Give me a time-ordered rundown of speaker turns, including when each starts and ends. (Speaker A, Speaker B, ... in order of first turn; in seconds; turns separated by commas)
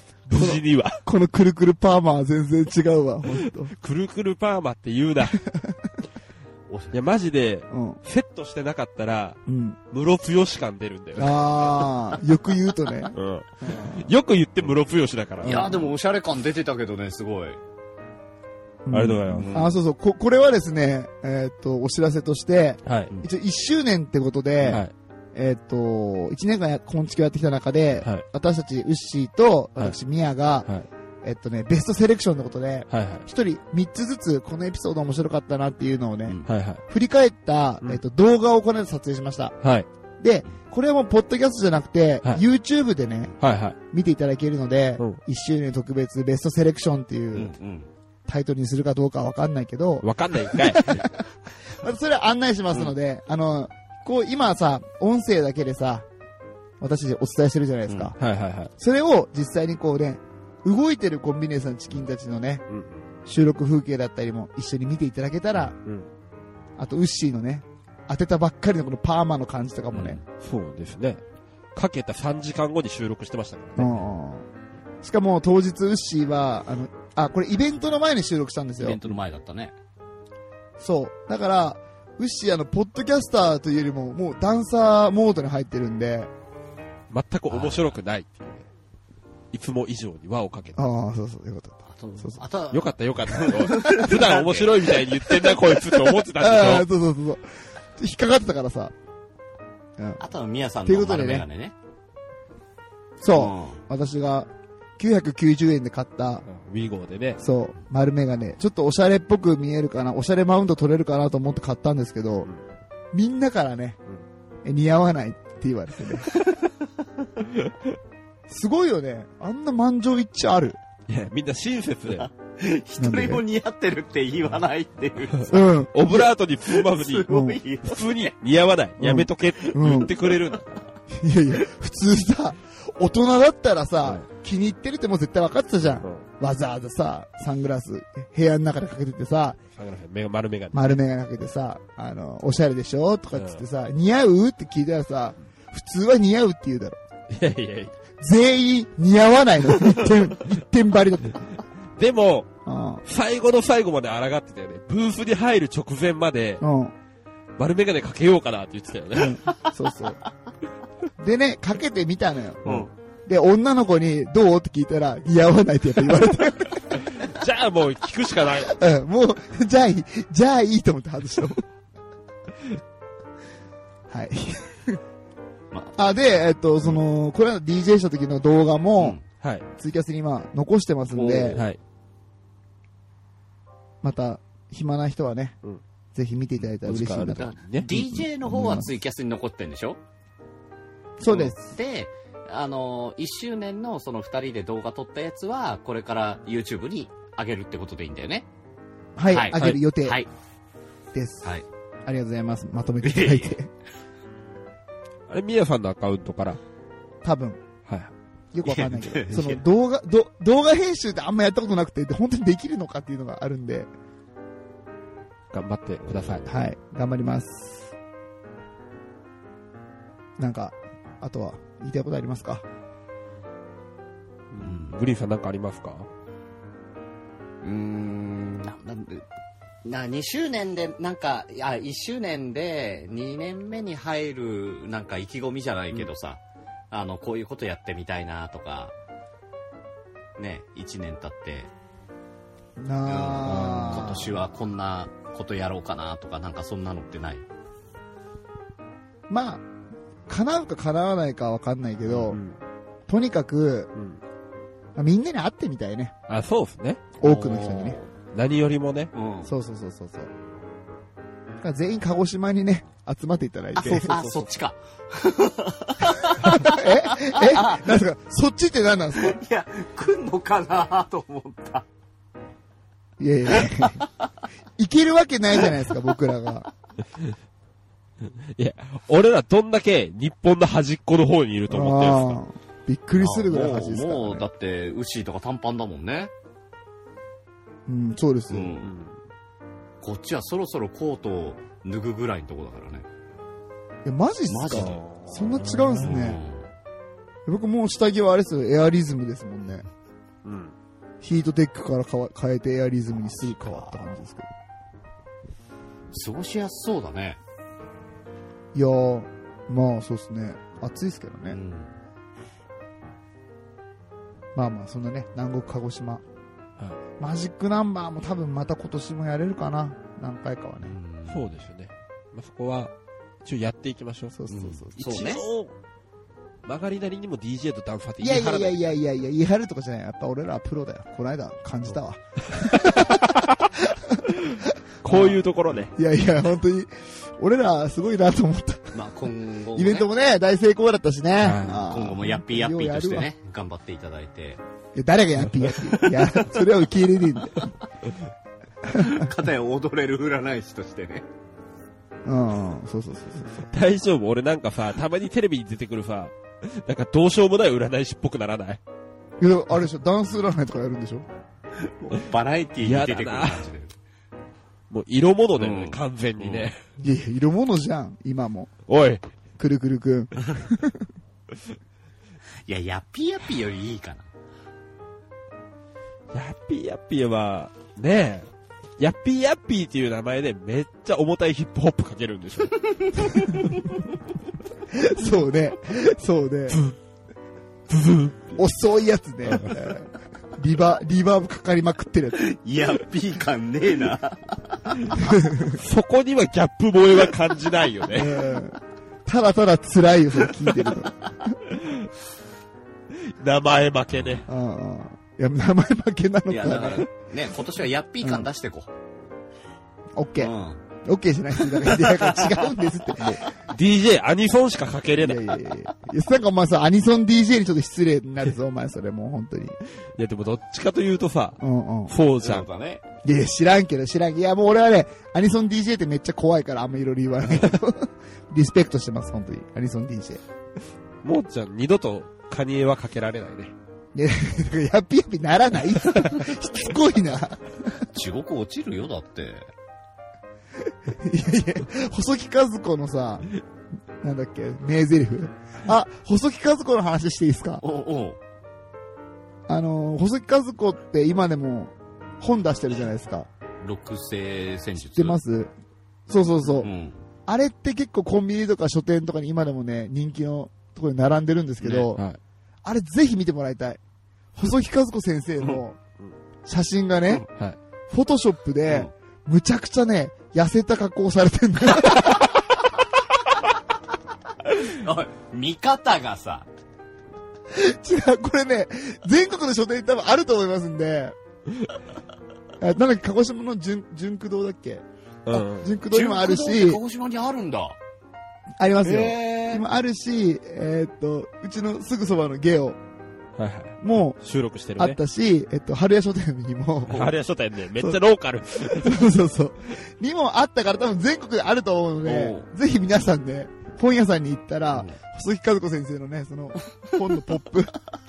Speaker A: 0.3-3.7, Speaker B: 0.3-1.0, Speaker B: 3.7-5.4, Speaker A: 5.5-5.9, Speaker C: 6.7-6.9, Speaker B: 6.9-9.4, Speaker A: 7.7-8.0, Speaker A: 9.5-9.8, Speaker B: 9.9-11.4, Speaker A: 11.2-14.1, Speaker B: 13.1-15.9, Speaker A: 15.4-15.8, Speaker C: 15.4-17.6, Speaker A: 18.8-24.8, Speaker B: 18.9-19.5, Speaker C: 19.4-19.8, Speaker B: 22.8-23.1, Speaker B: 24.6-24.9, Speaker A: 25.3-30.7, Speaker A: 31.2-39.5, Speaker B: 32.9-33.2, Speaker B: 36.5-36.8, Speaker B: 39.6-39.9, Speaker A: 40.2-43.4, Speaker B: 43.4-43.8, Speaker A: 43.9-47.5, Speaker C: 47.3-47.9, Speaker A: 48.3-56.1, Speaker B: 50.0-51.1, Speaker A: 56.8-58.1, Speaker B: 58.2-58.7, Speaker A: 58.8-62.6, Speaker B: 62.7-63.0, Speaker A: 63.2-65.8, Speaker B: 65.8-66.1, Speaker A: 66.8-70.2, Speaker C: 69.9-70.2, Speaker B: 70.4-71.2, Speaker B: 71.7-74.0, Speaker A: 73.8-74.5, Speaker A: 75.0-79.0, Speaker C: 78.8-79.7, Speaker A: 80.8-86.3, Speaker B: 87.1-88.7, Speaker C: 87.5-87.9, Speaker B: 89.5-90.9, Speaker A: 90.8-92.4, Speaker C: 91.9-95.6, Speaker B: 92.7-96.9, Speaker A: 93.8-94.1, Speaker A: 96.3-98.9, Speaker C: 100.2-101.7, Speaker A: 100.8-101.5, Speaker A: 103.2-106.4, Speaker C: 103.3-103.8, Speaker B: 106.5-107.4, Speaker A: 107.4-112.5, Speaker A: 113.1-114.0, Speaker A: 114.6-116.3, Speaker C: 116.3-116.7, Speaker B: 117.4-117.8, Speaker A: 118.5-120.8, Speaker B: 121.1-122.3, Speaker C: 122.1-128.3, Speaker A: 123.0-123.4, Speaker A: 125.5-126.0, Speaker B: 125.6-130.7, Speaker A: 127.3-127.6, Speaker A: 129.0-130.2, Speaker C: 129.9-130.6, Speaker A: 131.1-139.6, Speaker B: 136.0-136.2, Speaker B: 139.8-141.0, Speaker A: 140.7-147.0, Speaker B: 143.3-143.6, Speaker B: 147.3-147.9, Speaker A: 148.2-151.5, Speaker B: 152.0-152.5, Speaker A: 152.7-153.0, Speaker B: 153.0-156.6, Speaker A: 156.6-156.9, Speaker B: 157.6-159.4, Speaker A: 159.2-160.2, Speaker A: 161.2-167.1, Speaker C: 162.6-162.9, Speaker B: 166.9-168.8, Speaker A: 168.7-171.6, Speaker A: 174.1-175.0, Speaker C: 175.7-176.0, Speaker A: 176.0-179.2, Speaker B: 179.4-179.7, Speaker A: 179.8-181.6, Speaker C: 181.1-181.7, Speaker A: 184.0-185.6, Speaker A: 186.1-188.9, Speaker B: 186.8-187.9, Speaker C: 187.7-190.0, Speaker A: 191.2-191.7, Speaker C: 191.3-198.5, Speaker A: 199.2-200.2, Speaker C: 199.3-200.3, Speaker B: 199.5-199.8, Speaker A: 201.1-201.5, Speaker A: 202.1-203.7, Speaker C: 203.0-203.6, Speaker B: 205.3-206.6, Speaker A: 207.2-207.6, Speaker B: 207.9-208.1, Speaker A: 208.5-213.9, Speaker C: 208.6-209.6, Speaker B: 215.5-216.5, Speaker A: 216.4-217.9, Speaker A: 220.4-222.6, Speaker B: 224.5-226.1, Speaker C: 224.6-225.0, Speaker C: 227.6-229.2, Speaker C: 229.8-236.4, Speaker C: 236.9-238.9, Speaker C: 240.4-241.7, Speaker A: 242.8-244.4, Speaker C: 243.0-247.4, Speaker B: 243.4-244.2, Speaker A: 249.3-249.6, Speaker A: 250.3-252.4, Speaker B: 252.1-252.6, Speaker A: 253.1-253.9, Speaker B: 253.9-254.2, Speaker A: 254.9-256.1, Speaker B: 256.3-257.1, Speaker A: 257.2-258.0, Speaker C: 257.2-258.1, Speaker B: 258.3-259.1, Speaker C: 259.1-259.5, Speaker A: 259.4-260.3, Speaker A: 261.6-264.4, Speaker C: 263.8-267.9, Speaker A: 266.4-269.4, Speaker C: 269.1-271.9, Speaker A: 273.2-274.0, Speaker C: 273.5-274.2, Speaker A: 274.8-276.7, Speaker B: 278.5-282.4, Speaker A: 281.7-284.4, Speaker C: 283.2-286.3, Speaker A: 287.9-288.8, Speaker C: 288.5-288.9, Speaker B: 288.8-289.2, Speaker C: 290.0-293.1, Speaker A: 294.0-296.4, Speaker C: 294.5-295.4, Speaker B: 295.5-296.1, Speaker C: 296.0-296.6, Speaker A: 297.4-299.8, Speaker B: 300.4-300.7, Speaker A: 301.2-304.5, Speaker C: 303.3-304.1, Speaker C: 306.1-307.4, Speaker A: 308.7-311.6, Speaker C: 311.5-311.9, Speaker A: 314.5-316.2, Speaker A: 317.2-320.9, Speaker C: 320.8-321.4, Speaker B: 321.3-322.9, Speaker B: 323.4-324.4, Speaker A: 324.3-325.4, Speaker C: 324.5-325.4, Speaker B: 324.9-325.7, Speaker B: 326.6-328.9, Speaker A: 328.2-335.4, Speaker B: 332.5-333.7, Speaker B: 334.3-335.9, Speaker A: 335.9-339.0, Speaker C: 338.9-340.1, Speaker A: 339.7-343.3, Speaker B: 341.4-341.9, Speaker C: 341.5-344.6, Speaker A: 344.9-347.6, Speaker C: 345.7-346.4, Speaker A: 348.9-349.3, Speaker C: 349.0-351.2, Speaker A: 352.2-353.7, Speaker B: 353.7-358.8, Speaker A: 359.4-361.2, Speaker C: 361.8-363.9, Speaker B: 362.8-363.6, Speaker B: 364.9-366.8, Speaker C: 365.6-366.7, Speaker A: 367.0-368.7, Speaker B: 368.9-369.2, Speaker A: 369.6-371.0, Speaker C: 372.6-374.3, Speaker B: 376.3-383.8, Speaker C: 382.9-383.8, Speaker A: 384.9-386.8, Speaker B: 387.9-388.6, Speaker A: 388.6-392.4, Speaker B: 389.5-389.9, Speaker C: 392.4-395.2, Speaker B: 395.0-398.4, Speaker A: 395.2-395.8, Speaker A: 398.1-401.5, Speaker B: 401.7-402.1, Speaker B: 403.2-404.5, Speaker C: 404.1-404.4, Speaker A: 404.5-407.1, Speaker C: 406.5-408.9, Speaker A: 410.1-410.5, Speaker C: 410.4-410.8, Speaker A: 411.0-413.4, Speaker C: 411.7-412.7, Speaker B: 413.7-415.5, Speaker A: 415.2-419.8, Speaker B: 420.1-422.7, Speaker A: 421.6-422.1, Speaker C: 422.4-423.0, Speaker A: 423.2-430.4, Speaker B: 431.2-433.7, Speaker A: 434.1-438.1, Speaker C: 438.1-439.7, Speaker A: 441.1-443.5, Speaker A: 444.2-447.8, Speaker C: 447.8-448.4, Speaker A: 449.7-453.5, Speaker C: 453.8-455.4, Speaker A: 455.1-455.7, Speaker A: 456.3-456.9, Speaker C: 456.8-457.2, Speaker A: 457.5-462.2, Speaker B: 461.8-462.4, Speaker A: 462.8-464.0, Speaker A: 464.5-466.0, Speaker A: 466.6-467.5, Speaker A: 468.1-472.6, Speaker C: 474.7-476.7, Speaker A: 477.7-481.4, Speaker A: 482.8-487.0, Speaker B: 485.4-485.9, Speaker C: 486.1-488.0, Speaker A: 488.8-493.0, Speaker C: 489.0-489.8, Speaker B: 493.6-495.2, Speaker A: 494.0-494.4, Speaker A: 495.0-497.3, Speaker B: 497.1-499.2, Speaker A: 498.8-508.0, Speaker C: 502.2-502.7